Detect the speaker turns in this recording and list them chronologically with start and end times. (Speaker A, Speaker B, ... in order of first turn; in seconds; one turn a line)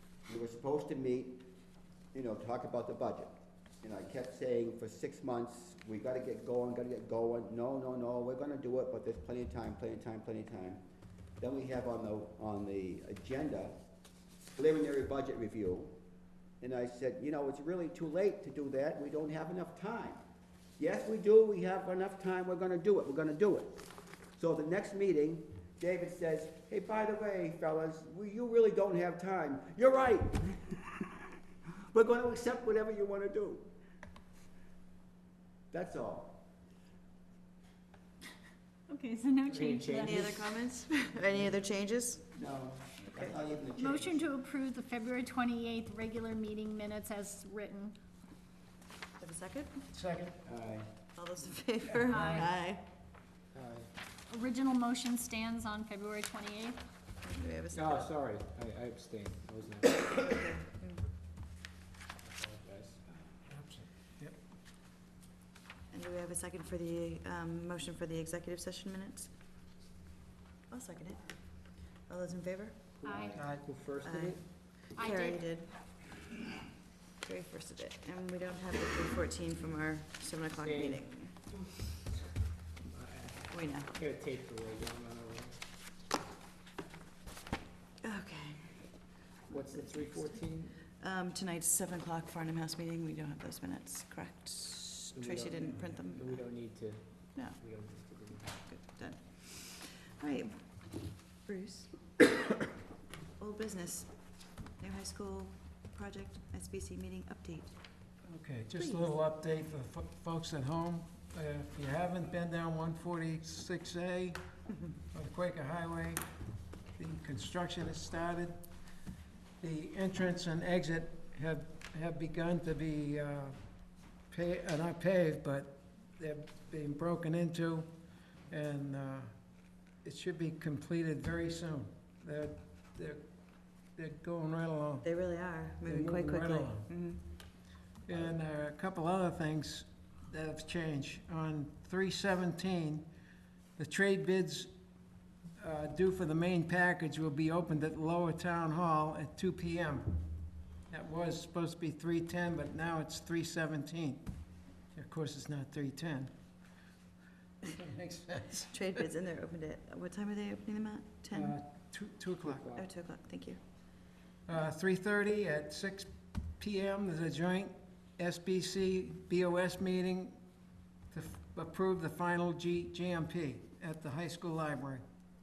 Speaker A: 0.3-1.4
Speaker A: 2.1-10.8
Speaker A: 11.4-13.7
Speaker A: 14.4-15.9
Speaker A: 16.6-20.2
Speaker A: 20.8-23.8
Speaker A: 24.4-30.8
Speaker A: 31.9-33.7
Speaker A: 35.7-36.4
Speaker B: 38.9-40.3
Speaker C: 39.5-40.4
Speaker D: 40.0-42.2
Speaker A: 42.3-44.3
Speaker B: 43.8-48.0
Speaker D: 49.2-49.8
Speaker E: 49.9-50.4
Speaker A: 50.5-50.9
Speaker D: 51.1-52.8
Speaker E: 51.9-52.5
Speaker B: 52.2-52.5
Speaker C: 53.5-53.9
Speaker B: 54.3-56.8
Speaker D: 57.2-58.1
Speaker C: 57.7-60.2
Speaker D: 60.0-61.0
Speaker C: 62.2-63.0
Speaker E: 63.5-64.4
Speaker D: 65.9-69.3
Speaker D: 70.7-71.2
Speaker D: 72.1-72.8
Speaker B: 73.0-73.4
Speaker C: 73.0-74.4
Speaker E: 73.3-73.8
Speaker D: 74.0-75.7
Speaker B: 74.9-75.4
Speaker D: 77.2-81.5
Speaker C: 80.6-81.0
Speaker C: 82.8-85.7
Speaker D: 83.5-83.9
Speaker D: 88.0-89.0
Speaker C: 89.5-90.8
Speaker D: 89.5-96.5
Speaker C: 95.1-98.7
Speaker D: 97.3-97.6
Speaker D: 98.7-100.6
Speaker D: 101.5-101.9
Speaker D: 103.4-104.1
Speaker D: 104.8-107.7
Speaker E: 108.3-114.4
Speaker D: 108.8-109.1
Speaker E: 115.1-116.2
Speaker E: 117.0-118.5
Speaker E: 119.6-123.5
Speaker E: 124.3-127.9
Speaker E: 128.5-129.3
Speaker E: 130.0-133.2
Speaker E: 133.9-135.1
Speaker D: 135.0-137.2
Speaker E: 135.8-136.9
Speaker E: 138.1-143.0
Speaker E: 143.8-144.7
Speaker E: 145.6-150.1
Speaker E: 150.9-154.2
Speaker E: 154.9-156.3
Speaker E: 157.6-158.7
Speaker D: 158.7-161.6
Speaker E: 161.3-162.7
Speaker C: 162.4-162.9
Speaker D: 162.8-163.6
Speaker E: 164.5-166.1
Speaker E: 166.6-170.4
Speaker E: 171.1-175.0